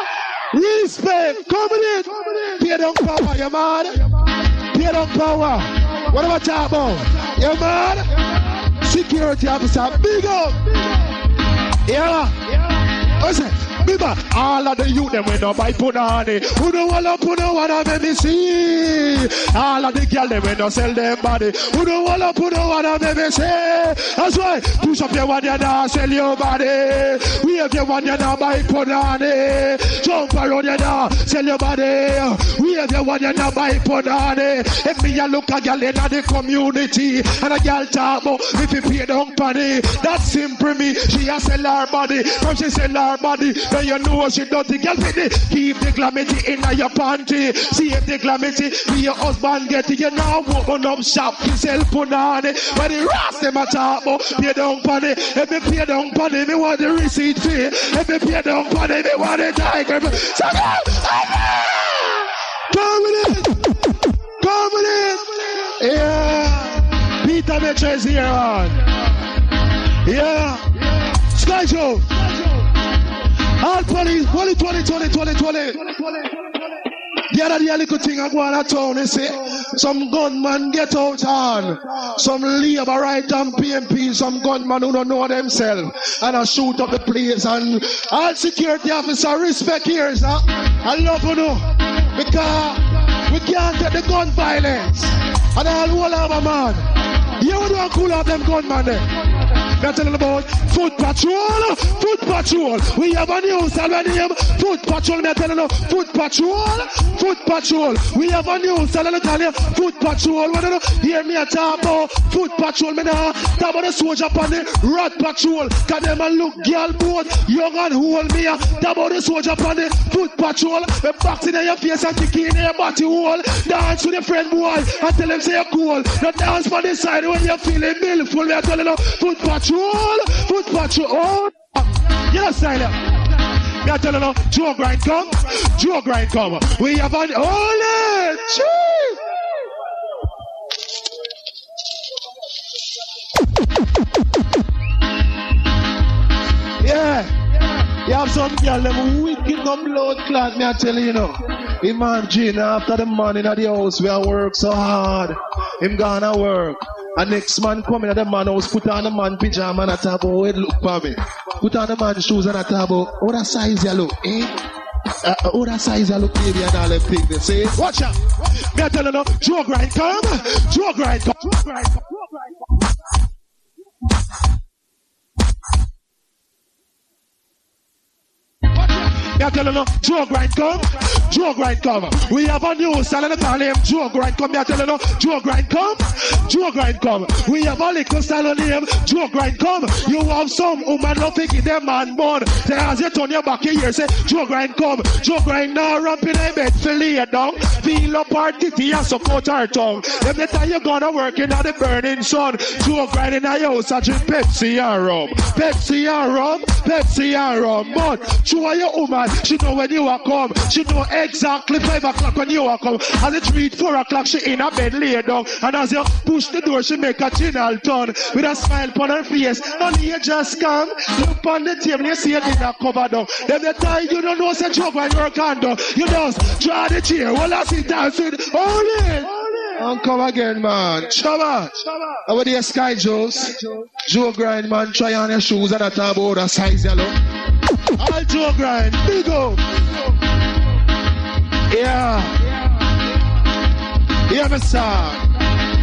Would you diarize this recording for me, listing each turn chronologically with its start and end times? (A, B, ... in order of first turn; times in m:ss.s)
0:00.5-0:04.0 A
0:04.7-0:08.2 A
0:08.8-0:10.9 A
0:11.8-0:12.5 A
0:13.2-1:01.4 A
1:02.7-1:03.7 A
1:04.4-1:08.8 A
1:10.0-1:12.6 A
1:13.6-1:16.3 A
1:17.3-1:39.1 A
1:39.8-2:13.1 A
2:13.8-2:19.2 A
2:26.8-2:44.6 A
2:45.3-2:48.2 A
2:48.7-2:52.0 A
2:59.4-3:57.1 A
3:58.0-3:59.8 A
4:01.7-4:02.4 A
4:04.3-4:05.2 A